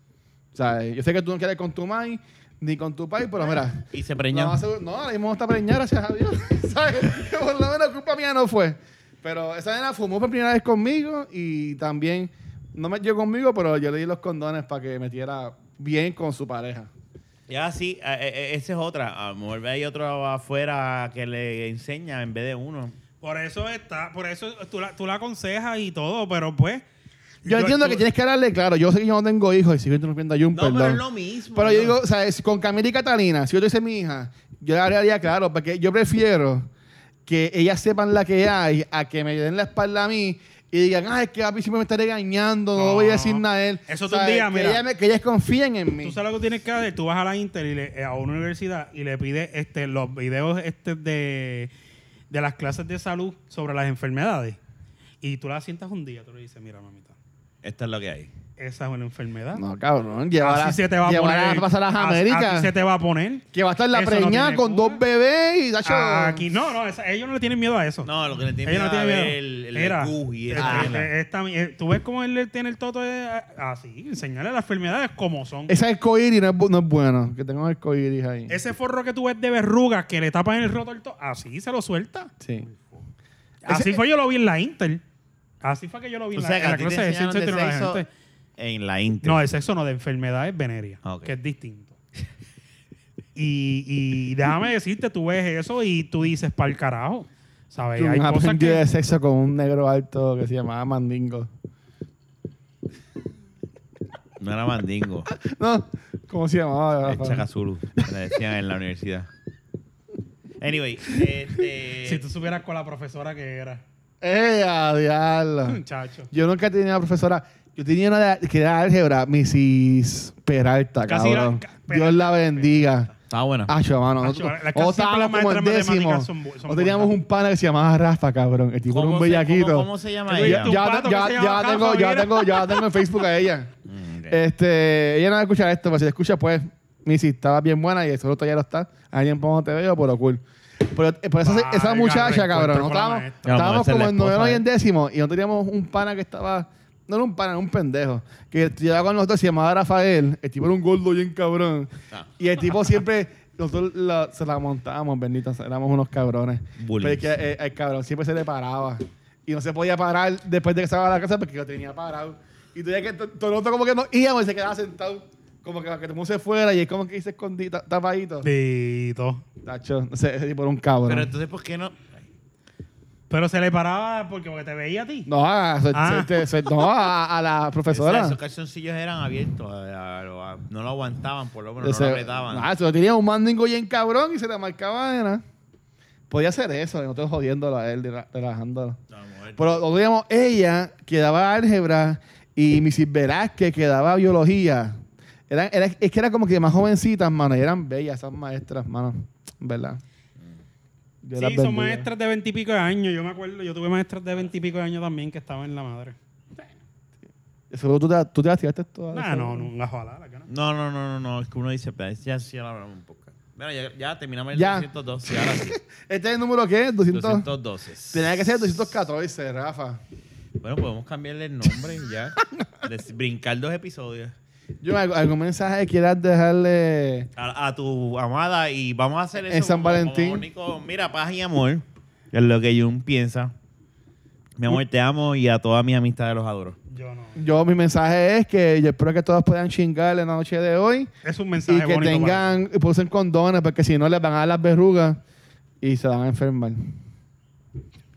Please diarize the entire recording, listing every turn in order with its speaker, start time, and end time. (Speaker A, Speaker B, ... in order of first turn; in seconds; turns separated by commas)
Speaker A: 0.5-16.9, Speaker B: 3.9-4.6, Speaker B: 17.5-23.0, Speaker C: 23.2-26.8, Speaker C: 27.4-28.1, Speaker A: 27.4-31.0, Speaker B: 30.5-32.0, Speaker A: 31.5-36.7, Speaker A: 37.3-46.2, Speaker C: 42.8-44.8, Speaker C: 46.0-51.7, Speaker C: 52.3-54.6, Speaker C: 55.2-57.2, Speaker B: 57.6-58.3, Speaker C: 58.6-59.6, Speaker A: 59.5-62.7, Speaker C: 60.4-65.0, Speaker A: 63.5-66.5, Speaker C: 65.8-68.1, Speaker B: 68.0-71.1, Speaker C: 68.6-75.8, Speaker A: 70.6-71.0, Speaker A: 75.7-78.6, Speaker C: 78.5-82.3, Speaker A: 82.4-82.7, Speaker C: 83.6-85.0, Speaker A: 83.7-84.0, Speaker C: 85.6-88.1, Speaker B: 86.3-88.0, Speaker B: 88.6-89.4, Speaker C: 89.2-92.0, Speaker B: 91.0-91.3, Speaker C: 93.4-98.8, Speaker A: 98.0-101.5, Speaker B: 104.4-105.3, Speaker A: 105.3-107.5, Speaker B: 107.0-109.3, Speaker B: 110.6-112.2, Speaker C: 112.0-113.8, Speaker A: 114.2-115.8, Speaker C: 115.7-116.3, Speaker A: 116.3-123.1, Speaker C: 121.1-123.0, Speaker B: 123.3-123.7, Speaker A: 123.7-133.7, Speaker C: 124.2-127.1, Speaker B: 128.9-130.8, Speaker C: 130.3-132.9, Speaker B: 133.9-134.4, Speaker A: 134.3-168.5, Speaker C: 141.4-143.5, Speaker B: 143.4-144.6, Speaker B: 156.8-157.3, Speaker C: 168.4-169.4, Speaker A: 169.6-171.3, Speaker B: 171.1-172.3, Speaker C: 173.3-175.3, Speaker A: 175.3-178.4, Speaker C: 175.9-176.8, Speaker B: 177.9-182.7, Speaker A: 181.8-185.4, Speaker A: 186.3-189.0, Speaker B: 189.1-189.8, Speaker A: 189.6-200.0, Speaker A: 201.2-202.1, Speaker C: 201.4-206.2, Speaker A: 207.7-209.7, Speaker C: 209.1-210.5, Speaker B: 210.5-215.8, Speaker A: 214.5-217.5, Speaker B: 217.1-218.5, Speaker A: 218.1-220.0, Speaker B: 220.6-224.3, Speaker A: 224.8-227.3, Speaker B: 227.4-233.5, Speaker A: 229.5-230.4, Speaker B: 234.6-236.8, Speaker C: 236.9-237.4, Speaker A: 237.3-241.1, Speaker C: 241.2-242.5, Speaker A: 241.7-245.2, Speaker A: 245.8-247.0